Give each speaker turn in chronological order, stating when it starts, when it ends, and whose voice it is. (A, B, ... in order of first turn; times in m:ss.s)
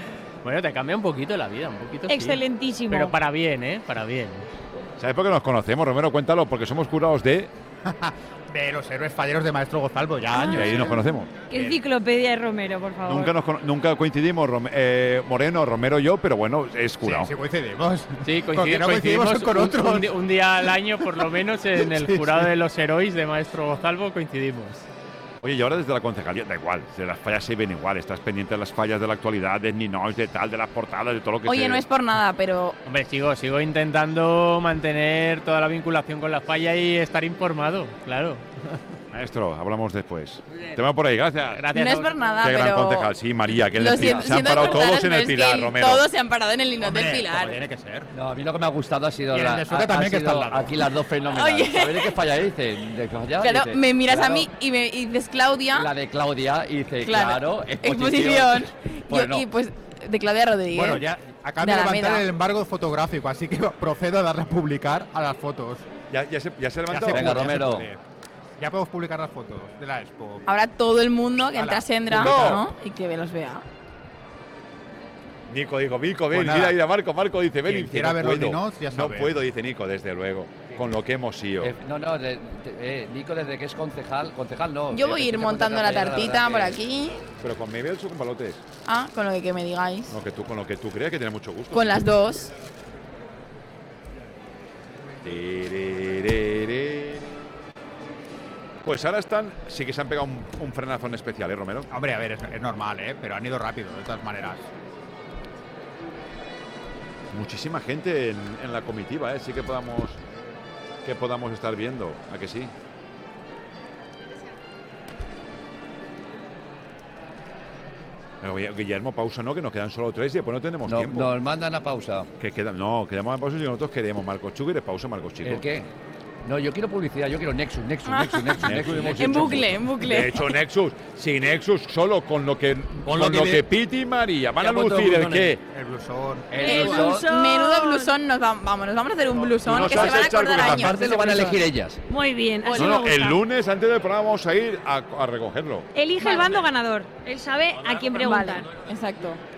0:00.4-0:04.5 A
0:02.1-0:03.1 B
0:05.0-0:07.5 C
0:07.9-0:11.8 D
0:10.5-0:11.3 C
0:11.5-0:13.3 B
0:13.0-0:17.3 C
0:17.0-0:20.1 D
0:18.2-0:24.9 A
0:21.8-0:22.5 D
0:25.4-0:31.8 C
0:31.4-0:32.8 E
0:32.8-0:38.8 A
0:39.1-0:41.7 C
0:41.5-0:42.1 A
0:41.7-0:43.1 E
0:42.4-0:46.0 C
0:43.8-0:47.6 E
0:44.0-0:44.5 F
0:46.8-0:48.1 D
0:48.1-0:54.5 F
0:49.3-0:50.7 D
0:51.3-0:52.1 E
0:53.4-0:55.9 E
0:55.7-0:59.5 F
0:57.0-1:01.0 E
1:00.7-1:05.9 D
1:01.6-1:02.3 E
1:06.1-1:07.7 C
1:06.9-1:08.0 D
1:07.1-1:07.9 F
1:08.6-1:10.5 D
1:10.5-1:13.6 E
1:11.6-1:12.6 D
1:12.1-1:12.7 C
1:15.5-1:21.8 C
1:16.3-1:16.8 D
1:17.6-1:19.4 D
1:21.6-1:26.8 F
1:24.9-1:27.2 E
1:27.4-1:28.6 C
1:28.9-1:30.2 E
1:30.1-1:32.0 C
1:31.7-1:32.5 E
1:35.2-1:37.3 C
1:38.8-1:41.9 C
1:41.9-1:44.7 D
1:47.3-1:50.2 C
1:51.0-1:52.7 C
1:58.4-2:01.3 C
2:00.9-2:02.3 F
2:02.4-2:05.7 C
2:05.4-2:05.9 F
2:06.4-2:09.8 F
2:08.1-2:10.5 E
2:08.6-2:15.6 C
2:13.1-2:13.6 F
2:14.6-2:15.6 F
2:15.7-2:16.9 D
2:16.5-2:17.3 F
2:16.6-2:18.2 B
2:16.7-2:21.0 E
2:19.6-2:21.6 C
2:19.8-2:22.0 F
2:22.1-2:23.4 B
2:22.6-2:23.2 E
2:22.8-2:25.9 C
2:25.9-2:28.7 B
2:26.2-2:26.5 E
2:28.1-2:29.4 E